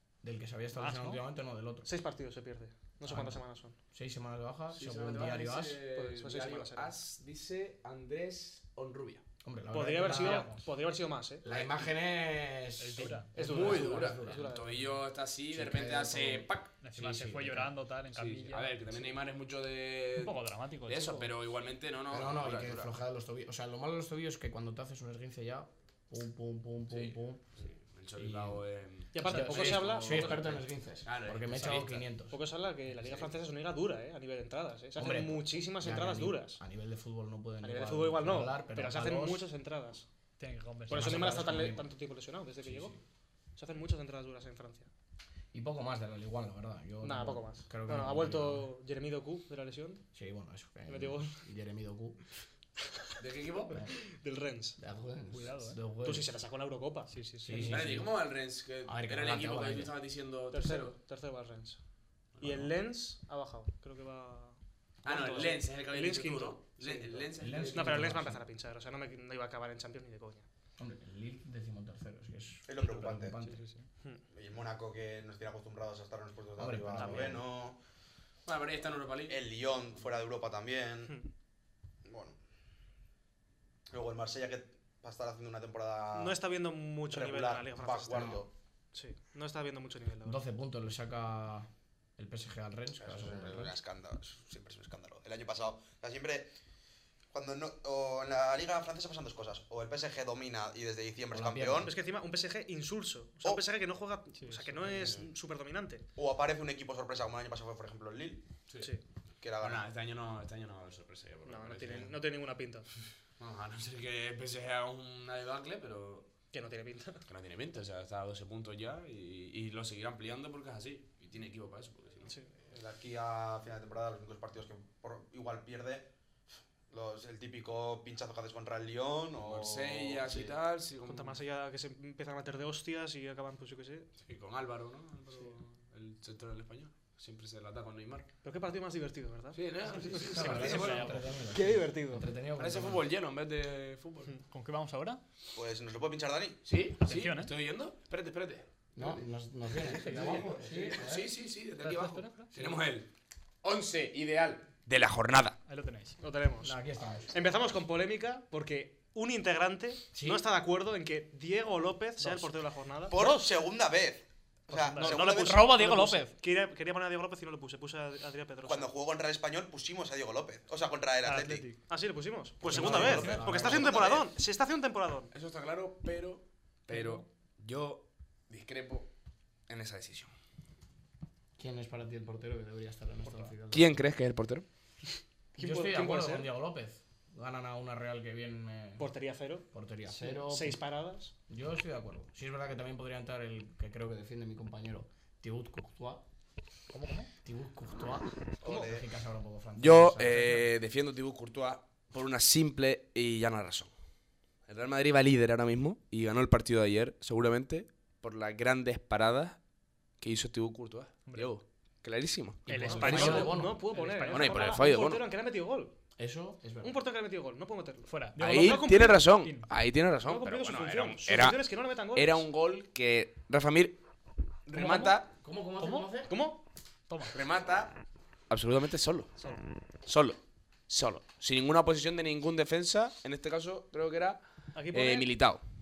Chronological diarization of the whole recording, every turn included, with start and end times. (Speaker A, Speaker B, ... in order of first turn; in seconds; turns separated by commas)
Speaker A: 0.2-1.9, Speaker B: 0.7-1.2, Speaker C: 1.8-3.8, Speaker A: 3.0-5.8, Speaker D: 4.7-9.2, Speaker C: 5.8-6.9, Speaker A: 9.4-10.6, Speaker C: 9.7-11.4, Speaker B: 10.0-10.6, Speaker A: 11.4-14.5, Speaker D: 11.5-11.8, Speaker B: 12.8-13.3, Speaker C: 13.3-14.9, Speaker D: 13.4-16.7, Speaker A: 15.5-17.8, Speaker B: 16.8-18.8, Speaker D: 18.1-22.9, Speaker B: 20.2-21.3, Speaker A: 22.1-27.4, Speaker D: 26.9-32.1, Speaker A: 28.1-28.6, Speaker C: 29.1-30.4, Speaker A: 29.2-32.4, Speaker C: 32.3-36.6, Speaker D: 33.0-33.3, Speaker A: 35.0-39.4, Speaker C: 37.6-40.0, Speaker B: 40.4-41.4, Speaker C: 40.9-43.0, Speaker A: 40.9-41.9, Speaker A: 42.6-43.0, Speaker C: 43.5-44.9, Speaker A: 45.5-48.7, Speaker C: 47.0-50.0, Speaker A: 50.1-52.2, Speaker C: 50.9-51.4, Speaker D: 53.2-53.8, Speaker C: 53.9-54.8, Speaker A: 54.8-56.3, Speaker B: 55.3-55.8, Speaker C: 56.0-57.1, Speaker B: 57.1-58.0, Speaker A: 57.4-58.2, Speaker D: 57.6-60.9, Speaker A: 58.8-59.9, Speaker C: 60.5-61.8, Speaker D: 62.4-62.7, Speaker C: 62.4-70.5, Speaker D: 65.0-68.1, Speaker A: 67.4-68.4, Speaker A: 70.8-73.6, Speaker E: 72.7-73.4, Speaker B: 73.4-73.9, Speaker E: 74.3-77.8, Speaker A: 76.5-77.4, Speaker C: 77.0-77.3, Speaker D: 78.5-79.5, Speaker E: 79.3-81.1, Speaker E: 82.0-82.4, Speaker E: 83.9-86.4, Speaker C: 86.1-90.4, Speaker E: 87.1-88.5, Speaker A: 88.1-88.4, Speaker A: 90.2-93.8, Speaker E: 93.0-96.5, Speaker E: 97.3-101.9, Speaker A: 101.3-101.9, Speaker C: 101.8-106.0, Speaker B: 104.4-104.8, Speaker E: 105.0-105.2, Speaker E: 106.2-108.4, Speaker C: 108.8-109.0, Speaker E: 109.4-109.8, Speaker D: 109.6-112.2, Speaker C: 111.4-112.9, Speaker D: 113.4-116.3, Speaker C: 116.5-117.2, Speaker D: 117.3-122.3, Speaker E: 122.7-126.1, Speaker E: 126.9-130.6, Speaker D: 129.4-131.4, Speaker C: 131.0-134.1, Speaker D: 134.2-138.3, Speaker C: 138.4-142.3, Speaker D: 139.5-141.2, Speaker A: 140.1-143.0, Speaker B: 140.2-141.2, Speaker D: 142.6-144.3, Speaker B: 144.4-145.2, Speaker E: 145.5-146.6, Speaker D: 146.6-148.7, Speaker B: 147.0-147.5, Speaker A: 148.9-151.3, Speaker D: 149.8-153.1, Speaker B: 151.8-152.6, Speaker D: 153.6-155.6, Speaker B: 155.7-156.2, Speaker C: 156.2-156.8, Speaker A: 156.6-157.4, Speaker C: 157.3-163.5, Speaker A: 160.1-160.4, Speaker B: 162.2-162.5, Speaker E: 163.1-165.9, Speaker B: 164.7-166.3, Speaker C: 164.9-168.9, Speaker E: 168.6-171.7, Speaker B: 171.2-171.8, Speaker C: 171.9-175.3, Speaker A: 172.7-174.0, Speaker B: 172.7-173.5, Speaker E: 172.8-174.3, Speaker D: 175.3-179.1, Speaker B: 176.9-177.2, Speaker D: 179.7-180.3, Speaker A: 181.6-183.9, Speaker D: 183.7-184.7, Speaker C: 185.6-186.5, Speaker A: 185.6-189.1, Speaker C: 189.0-191.3, Speaker A: 189.7-190.8, Speaker A: 191.5-196.2, Speaker B: 196.9-197.3, Speaker A: 197.4-200.7, Speaker E: 198.6-199.0, Speaker D: 199.8-203.9, Speaker D: 204.7-209.6, Speaker D: 210.2-213.5, Speaker B: 211.3-211.5, Speaker A: 212.7-213.8, Speaker B: 212.7-214.8, Speaker C: 212.9-215.9, Speaker D: 214.3-215.2, Speaker A: 216.2-217.0, Speaker C: 216.8-219.2, Speaker B: 218.1-219.7, Speaker D: 218.4-224.0, Speaker C: 220.2-222.4, Speaker D: 224.7-225.3, Speaker B: 224.7-225.2, Speaker A: 225.4-226.3, Speaker B: 225.8-226.1, Speaker C: 226.3-226.6, Speaker B: 227.1-227.4, Speaker D: 227.3-227.9, Speaker D: 228.5-229.3, Speaker D: 230.0-235.6, Speaker C: 234.7-235.3